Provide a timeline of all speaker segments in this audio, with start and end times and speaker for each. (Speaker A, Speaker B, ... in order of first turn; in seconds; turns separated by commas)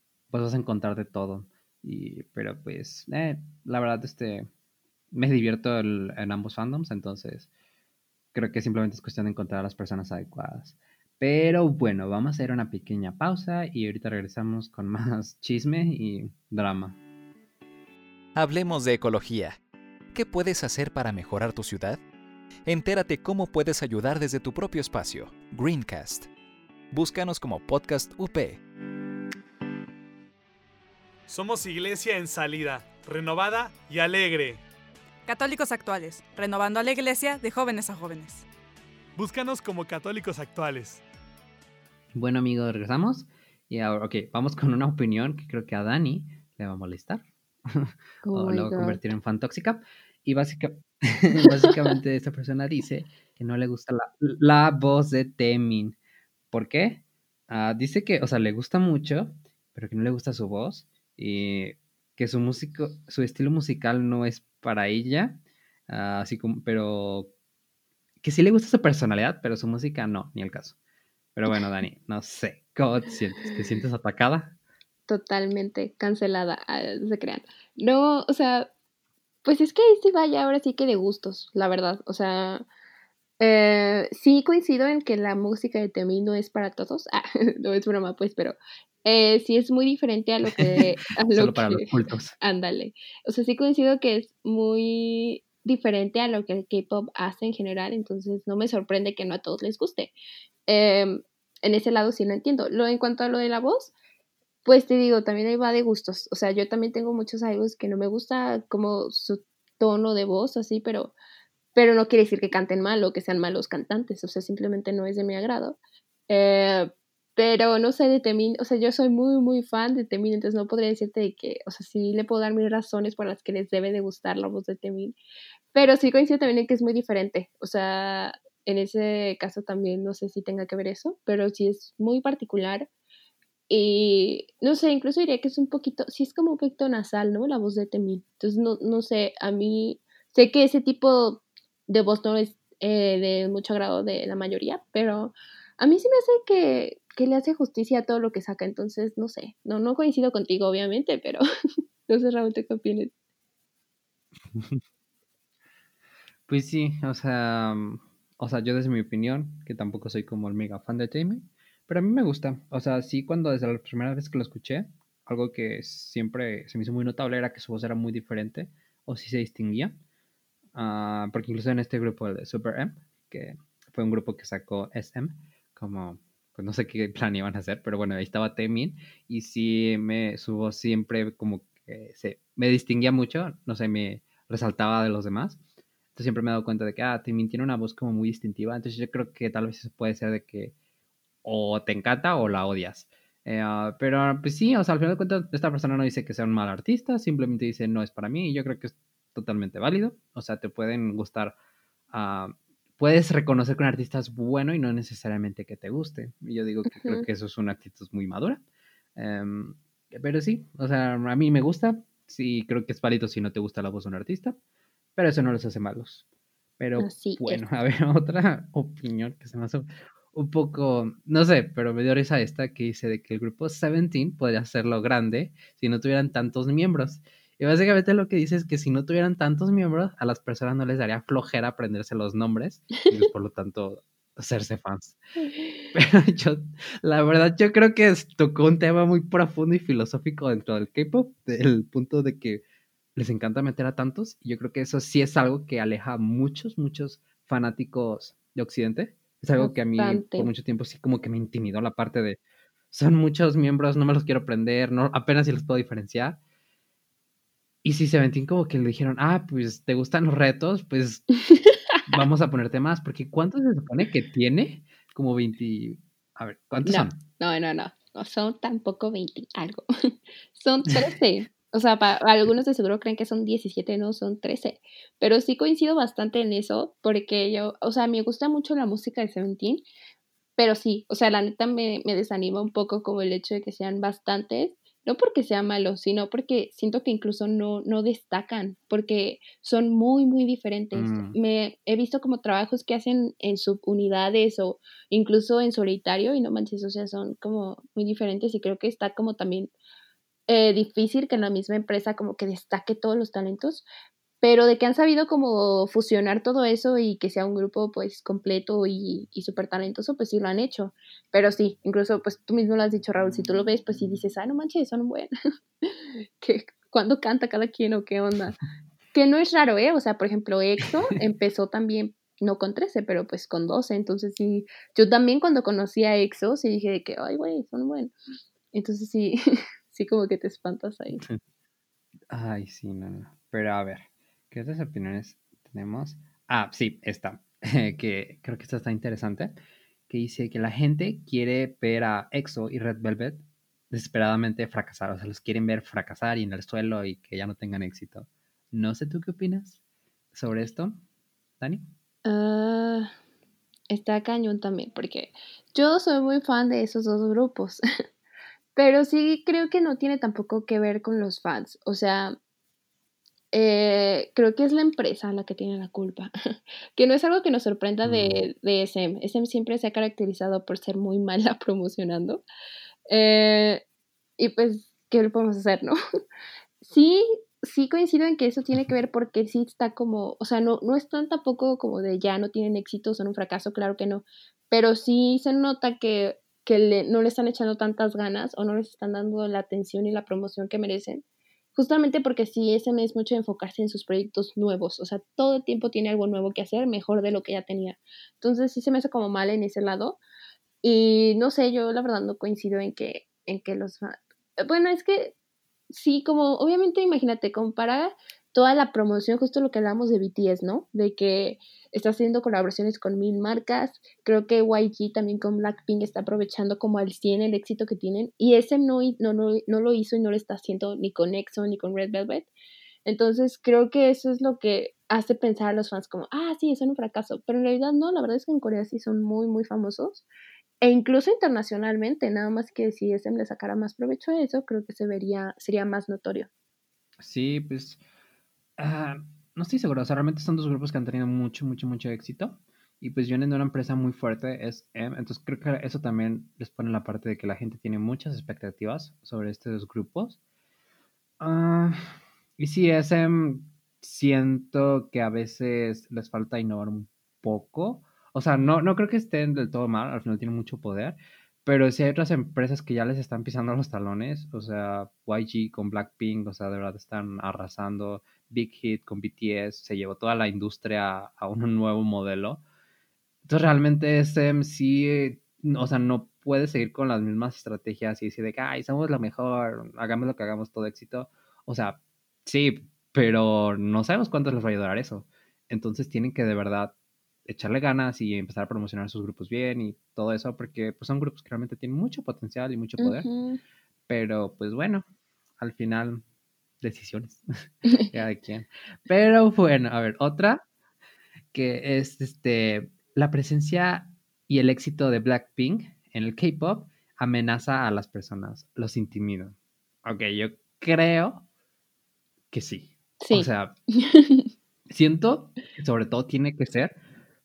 Speaker A: 0.3-4.5, Speaker A: 5.1-7.5, Speaker A: 8.3-17.0, Speaker B: 18.4-19.6, Speaker B: 20.1-22.0, Speaker B: 22.6-26.3, Speaker B: 26.9-28.6, Speaker C: 31.3-34.6, Speaker D: 35.2-38.5, Speaker C: 39.2-41.0, Speaker A: 42.1-56.0, Speaker E: 48.2-49.0, Speaker A: 56.5-67.3, Speaker A: 68.2-70.8, Speaker A: 71.3-74.5, Speaker E: 75.1-78.7, Speaker E: 79.4-82.7, Speaker E: 83.4-91.9, Speaker A: 90.5-92.3, Speaker E: 92.4-100.1, Speaker E: 100.7-103.9, Speaker E: 104.6-111.1, Speaker E: 111.7-115.8, Speaker E: 116.3-125.2, Speaker E: 125.7-132.9, Speaker E: 133.7-151.4, Speaker E: 152.1-153.1, Speaker A: 154.5-154.8, Speaker A: 156.5-170.0, Speaker A: 170.7-185.6, Speaker A: 186.1-190.7, Speaker A: 191.4-201.6, Speaker A: 202.1-208.6, Speaker E: 206.9-207.2, Speaker A: 209.2-214.6, Speaker A: 215.2-216.2, Speaker A: 216.8-235.2, Speaker E: 217.0-217.6, Speaker A: 235.9-242.6, Speaker A: 243.2-252.4, Speaker E: 249.6-250.5, Speaker A: 252.9-256.4, Speaker A: 257.8-261.2, Speaker E: 261.5-261.8, Speaker A: 262.1-267.2, Speaker E: 266.8-269.8, Speaker E: 270.5-279.8, Speaker E: 280.6-299.7, Speaker A: 290.9-291.4, Speaker E: 300.5-303.9, Speaker E: 304.4-315.3, Speaker E: 315.8-318.6, Speaker E: 319.1-328.1, Speaker E: 328.7-331.2, Speaker A: 332.3-339.6, Speaker A: 340.1-349.8, Speaker A: 350.3-351.0, Speaker A: 351.6-351.9, Speaker E: 352.2-353.1, Speaker E: 353.9-357.8, Speaker E: 358.7-362.4, Speaker E: 363.5-366.3, Speaker E: 366.9-372.4, Speaker A: 368.0-368.5, Speaker E: 373.1-373.8, Speaker E: 374.4-375.9, Speaker E: 376.8-391.2, Speaker E: 391.7-400.2, Speaker E: 400.8-405.3, Speaker E: 405.9-422.5, Speaker E: 423.1-430.3, Speaker E: 430.8-436.5, Speaker A: 437.2-438.0, Speaker A: 438.8-450.4, Speaker A: 451.4-472.6, Speaker A: 473.5-486.9, Speaker A: 487.4-493.3, Speaker E: 493.0-493.6, Speaker A: 494.1-495.0, Speaker A: 495.6-496.2, Speaker A: 496.8-497.4, Speaker A: 498.1-500.6, Speaker A: 501.5-511.4, Speaker A: 512.5-513.7, Speaker E: 513.2-513.5, Speaker E: 514.1-514.5, Speaker A: 514.9-517.0